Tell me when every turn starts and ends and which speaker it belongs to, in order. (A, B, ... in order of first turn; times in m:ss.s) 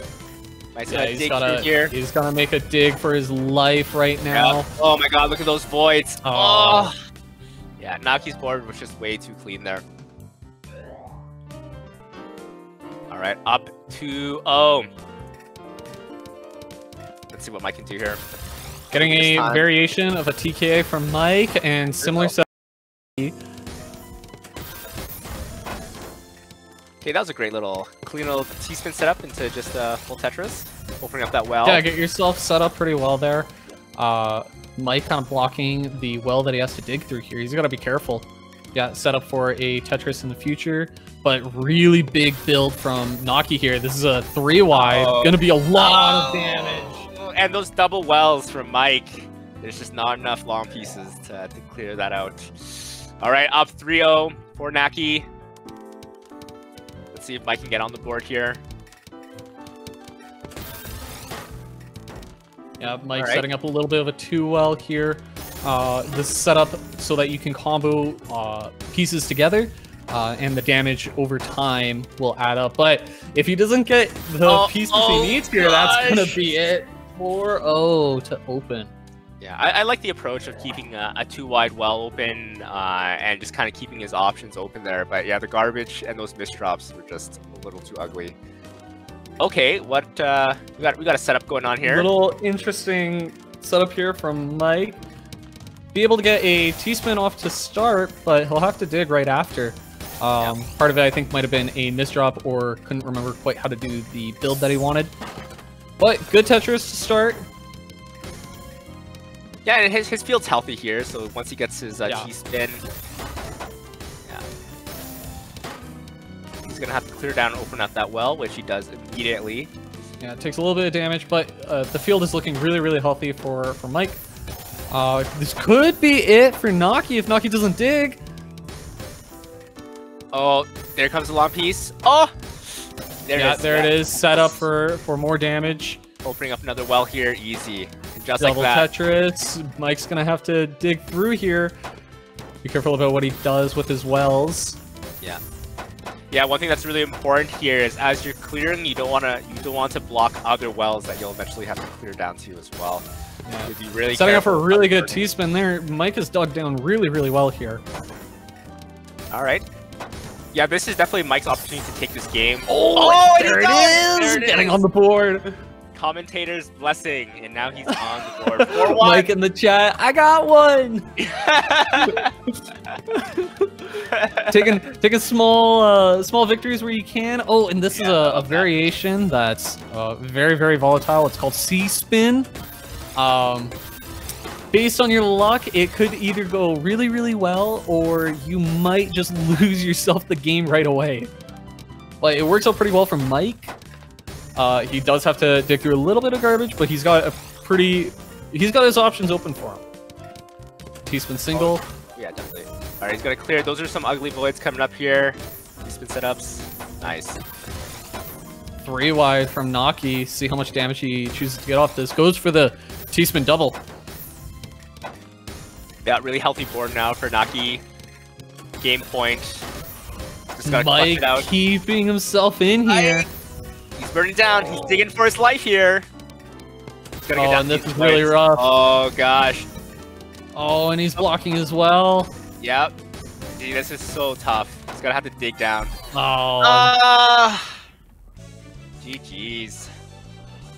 0:00.7-0:01.9 A
0:00.9-0:04.7 B
0:04.3-0:06.9 A
0:06.2-0:06.9 B
0:07.8-0:09.8 A
0:13.1-0:14.9 A
0:17.3-0:18.2 A
0:18.9-0:22.4 B
0:18.9-0:19.6 A
0:22.0-0:22.3 A
0:27.0-0:31.8 A
0:31.6-0:47.0 B
0:44.7-0:55.2 A
0:57.1-0:58.6 A
1:02.8-1:18.9 B
1:03.2-1:03.4 A
1:14.4-1:16.6 A
1:19.4-1:28.3 A
1:29.4-1:32.1 A
1:31.8-1:35.0 B
1:35.9-1:45.1 B
1:46.0-1:47.5 B
1:49.6-1:52.8 A
1:52.0-1:52.3 B
1:56.6-1:59.7 A
2:00.2-2:04.2 B
2:04.9-2:08.2 B
2:10.3-2:14.6 A
2:13.3-2:16.0 B
2:16.2-2:18.9 A
2:18.4-2:21.7 B
2:22.6-2:24.8 B
2:26.3-2:33.1 A
2:33.4-2:37.8 B
2:33.6-2:35.2 A
2:39.3-2:39.6 A
2:40.5-2:44.8 A
2:42.7-2:45.5 B
2:45.9-2:49.3 A
2:48.7-2:51.1 B
2:51.2-2:52.3 A
2:53.1-2:53.7 B
2:54.1-2:54.5 A
2:54.4-3:02.5 B
2:57.9-2:58.8 A
3:03.1-3:03.8 B
3:04.7-3:11.3 B
3:12.2-3:13.8 B
3:14.6-3:19.8 B
3:21.0-3:21.8 B
3:21.5-3:27.4 A
3:28.8-3:33.8 B
3:36.0-3:37.8 A
3:38.8-3:39.7 A
3:40.5-3:41.5 A
3:40.6-3:43.2 B
3:42.9-3:43.2 A
3:44.0-3:46.0 A
3:47.2-3:49.7 A
3:47.3-3:48.6 B
3:50.5-3:52.3 B
3:52.6-3:52.9 A
3:53.6-3:55.9 A
3:56.1-3:56.9 B
3:56.6-3:57.8 A
3:59.0-3:59.9 A